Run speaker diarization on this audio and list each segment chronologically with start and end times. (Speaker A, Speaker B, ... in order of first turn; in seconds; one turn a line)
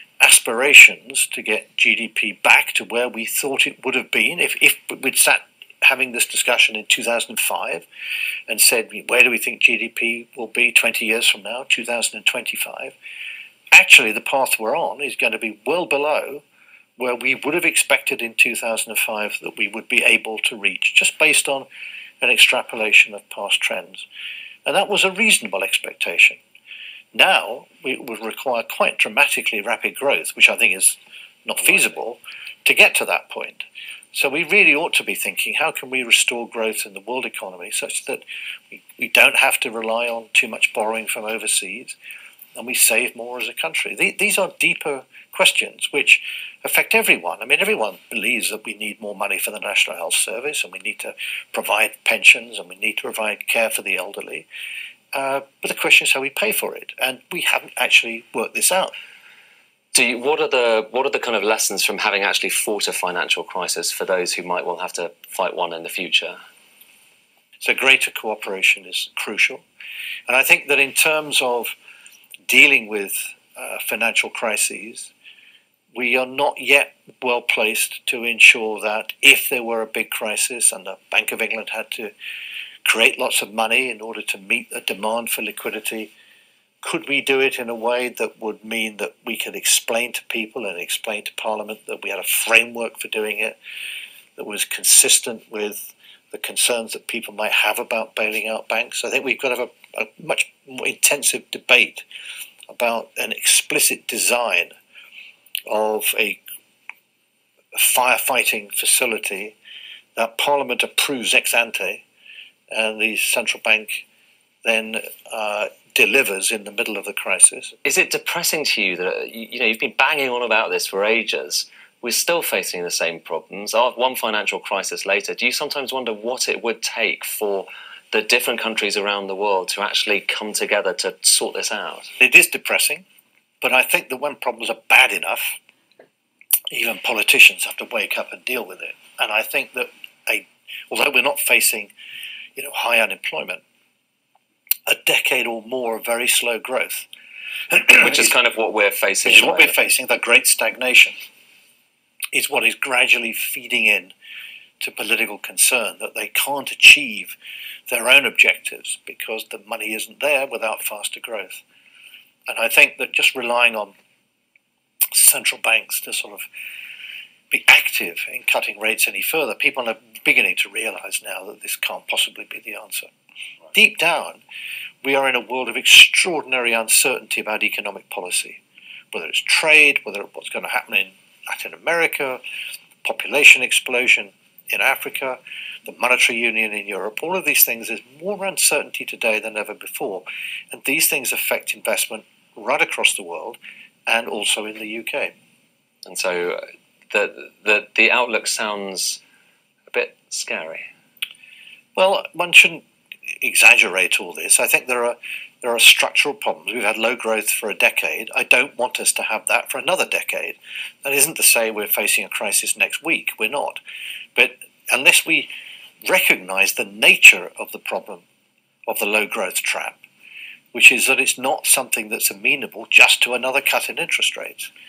Speaker A: 0.2-7.9
Speaker A: 8.5-12.9
Speaker A: 13.7-16.4
Speaker A: 17.0-21.7
Speaker A: 22.2-24.1
Speaker A: 24.6-26.4
Speaker A: 27.1-42.0
Speaker A: 42.6-54.5
Speaker A: 55.1-58.9
Speaker B: 59.9-66.4
Speaker A: 67.6-69.6
Speaker A: 70.3-71.8
Speaker A: 72.5-75.1
Speaker A: 75.9-82.1
Speaker A: 82.8-86.1
Speaker A: 86.8-93.6
Speaker A: 94.4-102.0
Speaker A: 102.7-104.8
Speaker A: 105.7-106.4
Speaker A: 107.8-109.5
Speaker A: 110.2-112.0
Speaker A: 112.7-114.1
Speaker A: 114.6-117.8
Speaker B: 117.8-132.1
Speaker A: 132.2-133.0
Speaker A: 133.6-135.6
Speaker A: 136.7-141.9
Speaker A: 142.6-143.6
Speaker A: 144.9-147.1
Speaker A: 147.7-148.3
Speaker B: 147.9-149.8
Speaker A: 149.2-151.2
Speaker A: 152.3-154.1
Speaker A: 154.8-157.4
Speaker A: 157.9-161.6
Speaker A: 162.5-163.9
Speaker A: 165.1-166.5
Speaker A: 167.5-173.1
Speaker A: 173.7-174.4
Speaker A: 175.0-178.6
Speaker A: 179.1-182.4
Speaker A: 183.0-195.3
Speaker B: 196.1-199.2
Speaker B: 199.9-200.9
Speaker A: 202.0-202.8
Speaker A: 203.4-213.8
Speaker A: 214.3-215.5
Speaker A: 216.0-218.2
Speaker A: 218.9-220.0
Speaker A: 220.7-224.7